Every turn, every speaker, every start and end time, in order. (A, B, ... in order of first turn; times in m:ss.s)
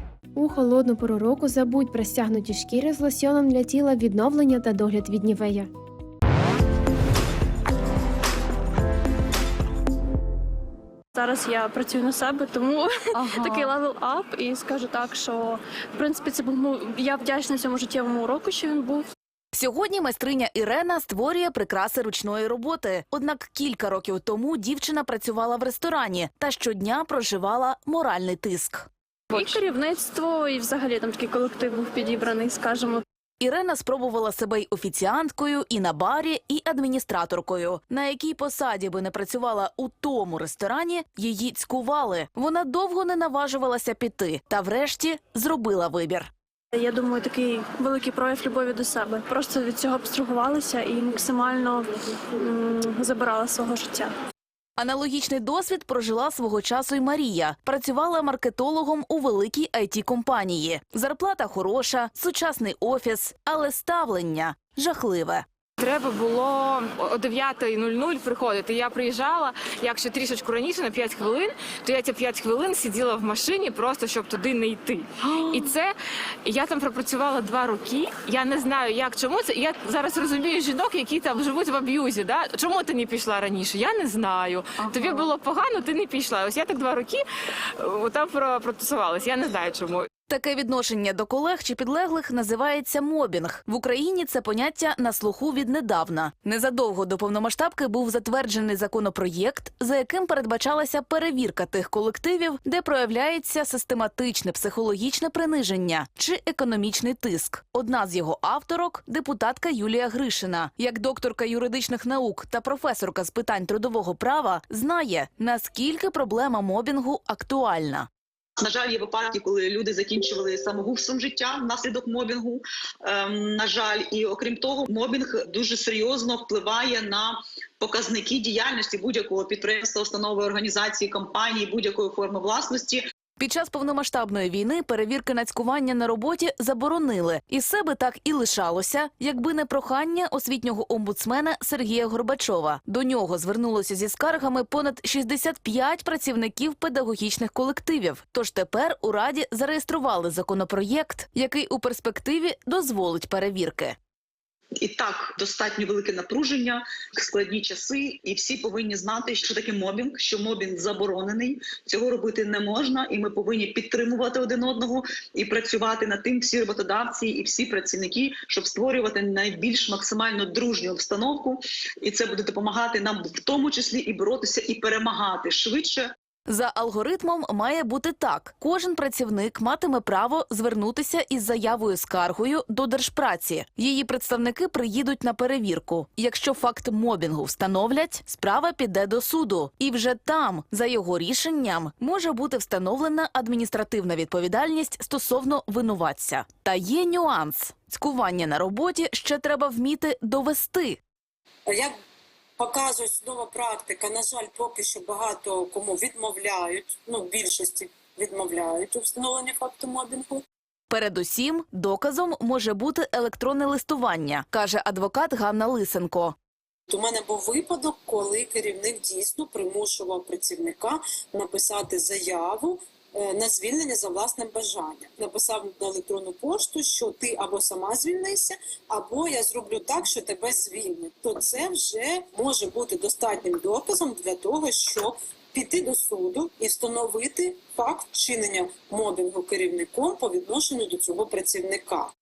0:00.4-0:05.7 A
0:11.2-0:19.1 B
0:19.5-0:28.9 C
0:29.3-0:33.0 B
0:33.4-0:46.3 C
0:46.7-0:54.1 B
0:54.8-1:05.4 C
1:05.8-1:15.9 D
1:16.4-1:27.2 D
1:27.8-1:30.1 D
1:30.3-1:58.1 C
1:58.6-2:13.0 E
2:13.4-2:34.0 C
2:34.8-2:56.1 E
2:56.5-3:21.0 C
3:21.7-3:21.9 F
3:22.6-3:30.4 F
3:30.9-3:36.4 C
3:36.9-4:02.1 F